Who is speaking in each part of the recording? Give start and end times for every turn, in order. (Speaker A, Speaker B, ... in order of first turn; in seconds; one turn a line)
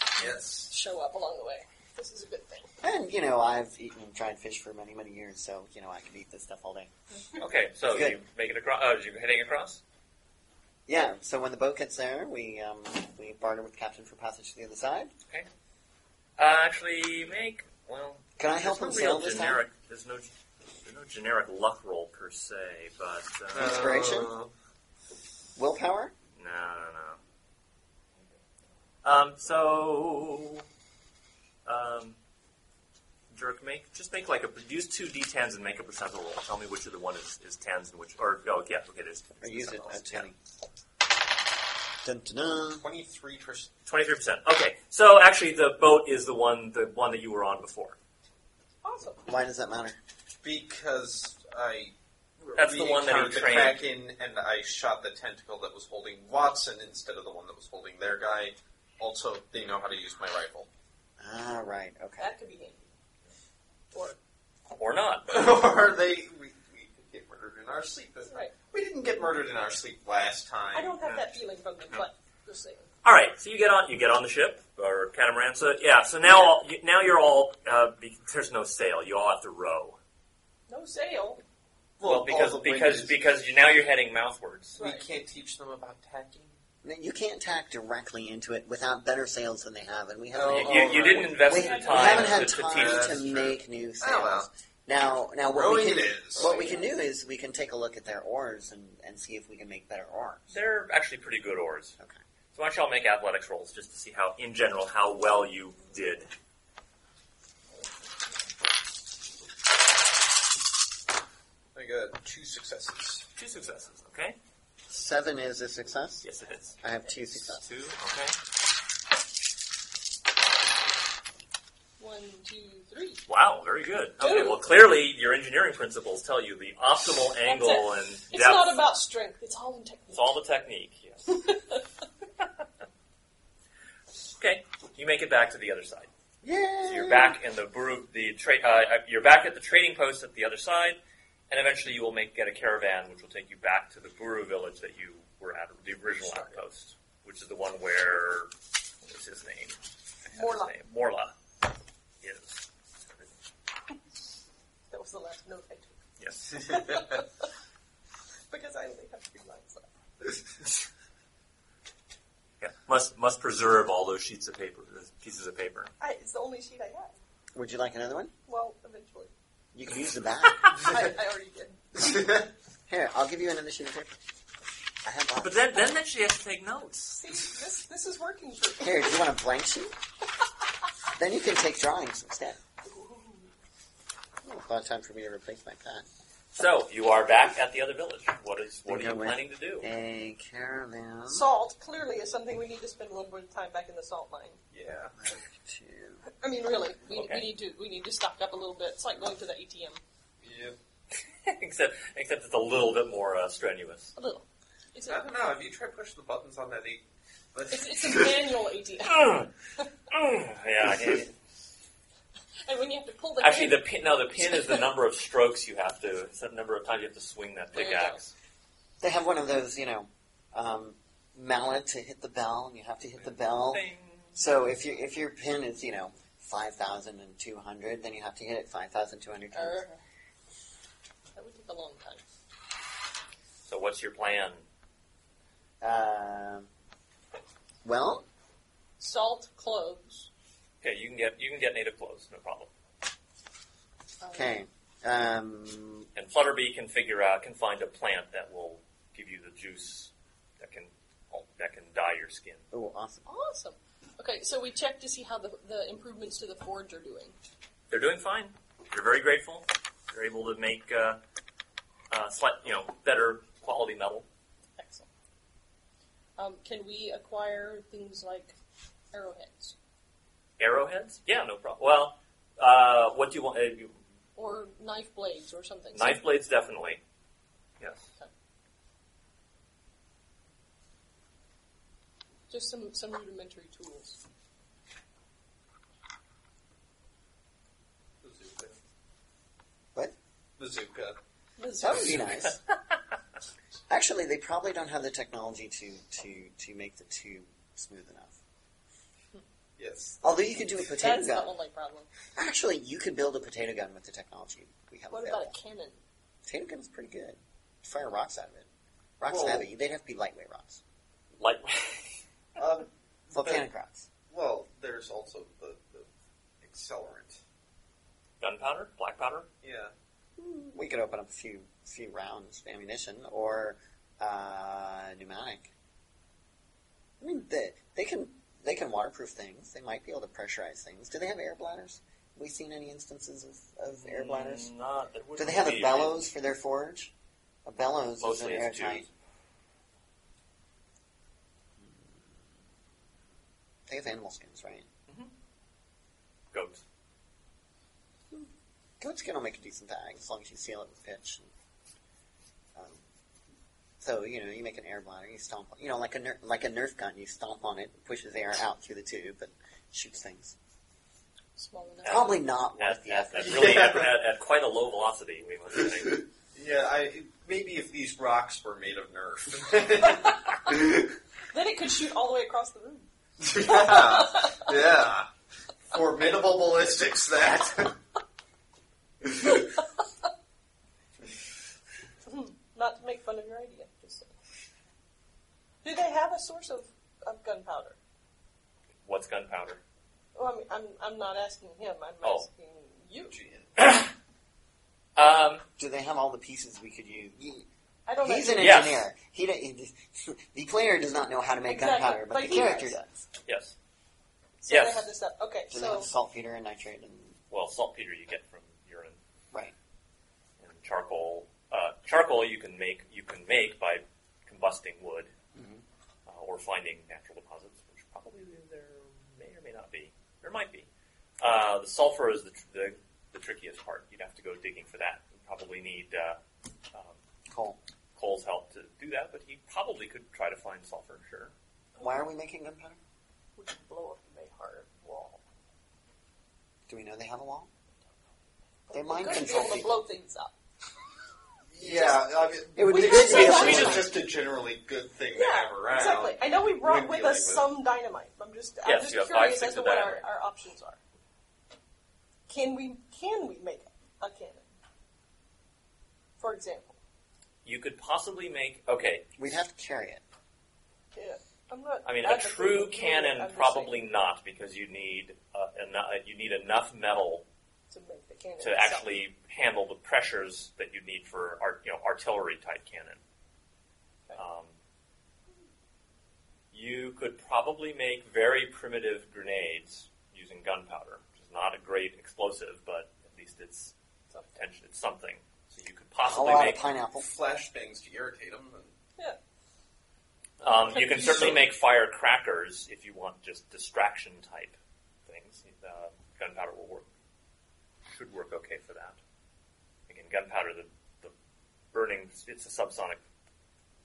Speaker A: 0.2-0.7
Speaker B: 0.2-2.7
Speaker C: 2.8-6.9
Speaker D: 7.4-9.8
Speaker C: 7.8-8.2
Speaker C: 10.9-15.1
Speaker D: 16.4-23.9
Speaker C: 18.4-19.6
Speaker A: 23.5-24.5
Speaker C: 23.5-24.3
Speaker C: 25.6-26.1
Speaker D: 26.4-27.2
Speaker D: 29.0-30.6
Speaker D: 31.6-32.2
Speaker D: 33.3-40.3
Speaker C: 39.4-40.4
Speaker C: 42.0-42.8
Speaker A: 42.8-43.7
Speaker D: 43.9-48.0
Speaker B: 48.8-49.2
Speaker C: 49.2-50.0
Speaker A: 50.4-60.7
Speaker D: 52.5-53.8
Speaker C: 61.2-62.3
Speaker B: 62.2-62.9
Speaker D: 64.7-65.3
Speaker A: 65.3-71.0
Speaker B: 68.3-68.5
Speaker B: 70.7-72.9
Speaker D: 73.0-80.0
Speaker B: 80.7-81.4
Speaker A: 82.0-83.2
Speaker D: 82.0-84.8
Speaker B: 84.8-85.1
Speaker A: 84.8-86.5
Speaker C: 86.8-100.5
Speaker A: 90.3-94.5
Speaker D: 90.5-93.3
Speaker B: 91.5-92.3
Speaker A: 95.5-96.7
Speaker D: 100.5-102.0
Speaker D: 102.5-106.3
Speaker A: 111.7-113.2
Speaker D: 113.3-114.4
Speaker C: 114.9-116.2
Speaker D: 116.2-118.3
Speaker C: 116.8-117.6
Speaker B: 122.0-123.2
Speaker D: 123.3-128.8
Speaker B: 124.2-124.7
Speaker B: 127.4-130.3
Speaker D: 130.1-131.4
Speaker B: 131.3-131.8
Speaker D: 134.4-136.1
Speaker C: 136.4-137.4
Speaker D: 136.8-141.0
Speaker D: 141.5-148.5
Speaker B: 146.2-146.6
Speaker D: 149.0-151.3
Speaker B: 150.3-150.8
Speaker D: 152.2-153.3
Speaker B: 154.9-156.0
Speaker D: 156.2-157.1
Speaker B: 156.5-157.4
Speaker B: 158.5-159.9
Speaker D: 162.6-165.9
Speaker B: 166.0-167.1
Speaker C: 167.5-168.3
Speaker B: 168.5-169.3
Speaker C: 169.7-170.7
Speaker B: 170.8-172.0
Speaker C: 172.9-174.1
Speaker C: 175.0-175.6
Speaker D: 175.4-177.4
Speaker B: 177.2-179.1
Speaker C: 178.8-179.9
Speaker C: 181.2-182.6
Speaker B: 182.8-183.5
Speaker C: 184.4-186.0
Speaker D: 186.5-189.9
Speaker C: 188.8-191.5
Speaker B: 191.3-194.6
Speaker A: 194.7-195.2
Speaker C: 195.2-196.2
Speaker B: 196.3-200.0
Speaker D: 197.1-197.5
Speaker A: 200.4-200.8
Speaker D: 201.4-204.1
Speaker B: 204.2-205.2
Speaker A: 205.1-207.0
Speaker A: 207.5-208.4
Speaker B: 207.7-209.8
Speaker D: 209.0-209.5
Speaker D: 210.1-211.3
Speaker B: 212.7-214.8
Speaker D: 213.4-218.3
Speaker B: 217.7-218.2
Speaker C: 219.0-223.8
Speaker D: 223.2-224.6
Speaker C: 224.3-229.8
Speaker B: 229.5-230.0
Speaker B: 231.3-232.2
Speaker D: 233.6-234.6
Speaker C: 235.8-236.7
Speaker C: 237.8-238.2
Speaker B: 239.0-240.3
Speaker D: 240.8-242.7
Speaker B: 244.2-244.6
Speaker C: 244.3-246.1
Speaker D: 246.2-252.6
Speaker C: 252.7-253.2
Speaker B: 253.2-257.4
Speaker D: 257.9-261.2
Speaker D: 262.1-264.3
Speaker B: 264.8-265.1
Speaker B: 266.4-268.6
Speaker B: 269.1-269.7
Speaker D: 270.6-273.9
Speaker B: 274.4-276.2
Speaker D: 275.9-277.0
Speaker D: 277.8-278.1
Speaker B: 282.5-284.2
Speaker A: 288.2-288.8
Speaker A: 290.6-291.1
Speaker B: 291.6-292.4
Speaker C: 291.8-292.6
Speaker C: 293.9-298.3
Speaker A: 299.8-300.2
Speaker C: 300.2-301.6
Speaker B: 301.0-302.1
Speaker C: 302.4-305.5
Speaker B: 305.1-306.0
Speaker C: 306.4-308.7
Speaker C: 309.2-310.8
Speaker A: 309.3-309.6
Speaker D: 311.4-312.2
Speaker A: 312.6-313.6
Speaker C: 313.3-314.1
Speaker A: 314.3-316.1
Speaker A: 316.6-317.4
Speaker D: 318.4-319.5
Speaker A: 319.6-319.9
Speaker C: 320.4-325.7
Speaker C: 327.2-334.7
Speaker D: 333.9-336.3
Speaker C: 335.4-337.1
Speaker C: 337.6-339.1
Speaker D: 338.2-339.1
Speaker C: 341.8-342.4
Speaker C: 343.9-344.9
Speaker D: 346.5-346.8
Speaker C: 349.0-351.5
Speaker C: 352.8-353.0
Speaker C: 354.0-360.5
Speaker B: 361.6-362.4
Speaker C: 362.0-364.0
Speaker D: 362.0-366.3
Speaker A: 363.4-364.0
Speaker A: 366.0-371.1
Speaker B: 371.5-373.1
Speaker A: 373.4-375.3
Speaker B: 373.9-374.7
Speaker A: 375.9-377.9
Speaker A: 379.3-379.5
Speaker B: 382.2-384.3
Speaker B: 385.8-388.0
Speaker D: 389.0-389.8
Speaker B: 390.3-393.4
Speaker A: 393.3-393.7
Speaker D: 393.8-394.1
Speaker D: 395.1-395.6
Speaker C: 395.8-397.6
Speaker B: 398.1-398.9
Speaker C: 398.2-403.1
Speaker D: 398.5-399.1
Speaker B: 401.6-402.9
Speaker D: 403.4-403.7
Speaker B: 404.6-406.1
Speaker D: 404.7-405.1
Speaker C: 405.7-407.4
Speaker D: 407.5-409.2
Speaker D: 410.6-415.3
Speaker C: 415.5-415.8
Speaker D: 416.3-420.9
Speaker D: 421.4-426.4
Speaker C: 427.5-427.8
Speaker D: 428.1-431.5
Speaker C: 432.0-433.0
Speaker B: 433.6-435.4
Speaker C: 436.9-437.7
Speaker B: 438.9-440.5
Speaker C: 438.9-439.9
Speaker A: 441.7-447.7
Speaker B: 441.8-442.2
Speaker C: 442.8-444.1
Speaker B: 442.8-444.1
Speaker B: 445.3-451.0
Speaker D: 448.8-450.2
Speaker B: 452.5-454.7
Speaker B: 456.4-457.0
Speaker D: 457.6-459.3
Speaker C: 459.4-460.2
Speaker B: 461.1-464.0
Speaker D: 462.0-467.4
Speaker B: 467.9-469.1
Speaker D: 468.6-473.2
Speaker D: 474.4-474.7
Speaker D: 476.7-483.9
Speaker D: 484.5-486.9
Speaker C: 486.2-487.3
Speaker A: 487.2-488.9
Speaker D: 490.6-497.1
Speaker B: 490.9-491.6
Speaker D: 498.1-499.2
Speaker D: 500.1-501.3
Speaker D: 501.9-503.2